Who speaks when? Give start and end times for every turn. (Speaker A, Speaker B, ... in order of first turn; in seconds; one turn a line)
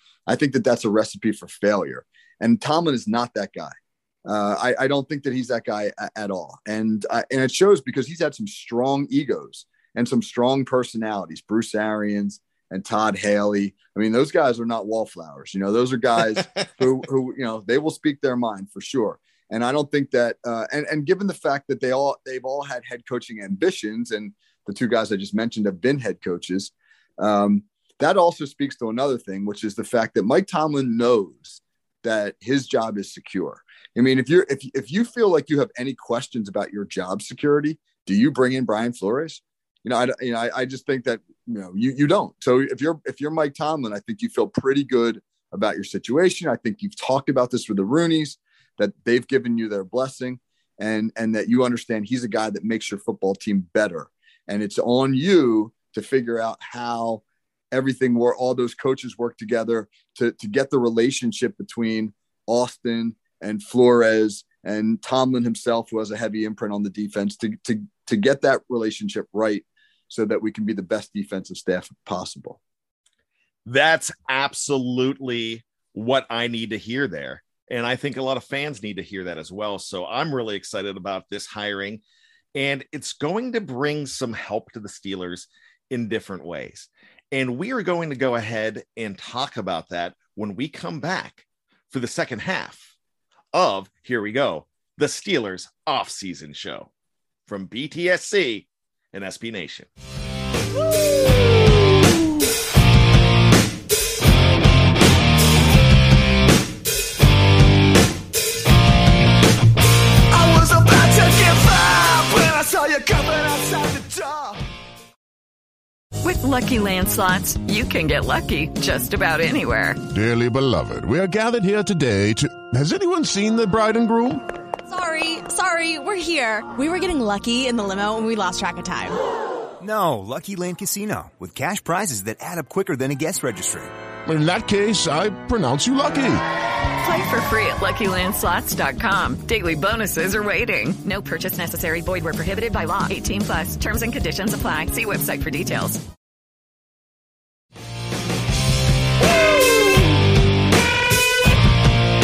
Speaker A: 0.3-72.6
Speaker B: 73.7-82.0
Speaker B: 82.5-92.9
Speaker B: 93.5-96.9
Speaker B: 97.5-99.9
Speaker A: 110.3-114.5
Speaker C: 116.2-120.0
Speaker D: 120.1-124.4
Speaker E: 124.9-129.2
Speaker F: 129.8-133.9
Speaker D: 134.2-136.4
Speaker C: 137.0-146.0